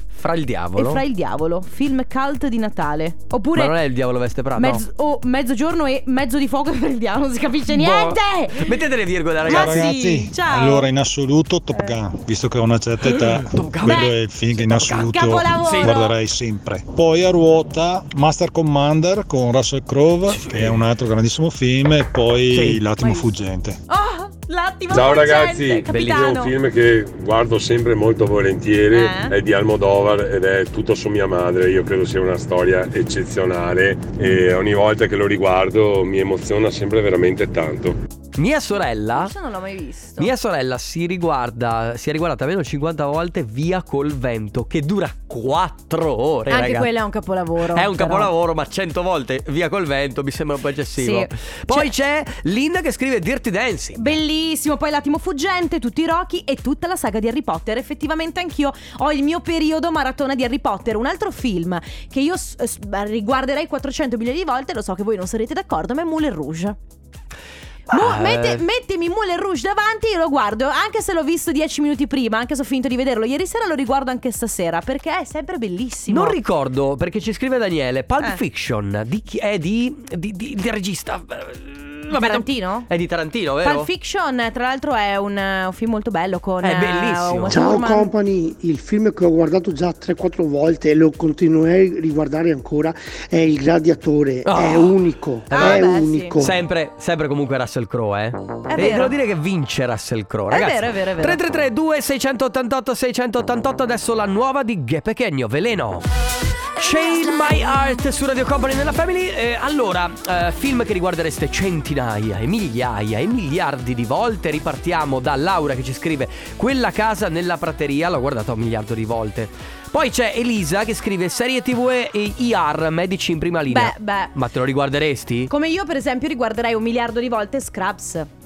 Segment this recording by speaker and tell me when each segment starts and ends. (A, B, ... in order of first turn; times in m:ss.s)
0:00.2-0:01.0 A
0:00.8-0:03.7 B
0:03.6-0:04.8 A
0:04.6-0:08.8 B
0:07.7-0:09.8 A
0:09.4-0:23.8 C
0:09.5-0:10.9 B
0:13.1-0:14.1 A
0:13.9-0:14.1 B
0:14.6-0:15.9 A
0:14.9-0:16.1 B
0:20.3-0:20.8 A
0:22.5-0:22.8 A
0:23.9-0:26.5 B
0:24.9-0:38.0 D
0:25.9-0:26.4 A
0:28.9-0:29.3 B
0:38.4-0:39.3 A
0:39.2-0:40.3 B
0:40.2-0:46.9 A
0:46.5-0:48.3 B
0:47.6-0:54.1 A
0:51.0-0:51.9 B
0:54.0-1:06.8 B
1:07.9-1:08.6 A
1:07.9-1:16.4 B
1:16.1-1:23.9 A
1:22.1-1:22.9 B
1:23.6-1:28.1 B
1:26.6-1:27.6 A
1:27.5-1:36.6 E
1:34.4-1:35.0 A
1:35.5-1:46.1 A
1:35.5-1:36.4 B
1:38.7-1:39.1 B
1:40.5-1:41.4 B
1:46.8-2:05.5 A
2:03.7-2:04.3 B
2:05.5-2:08.3 B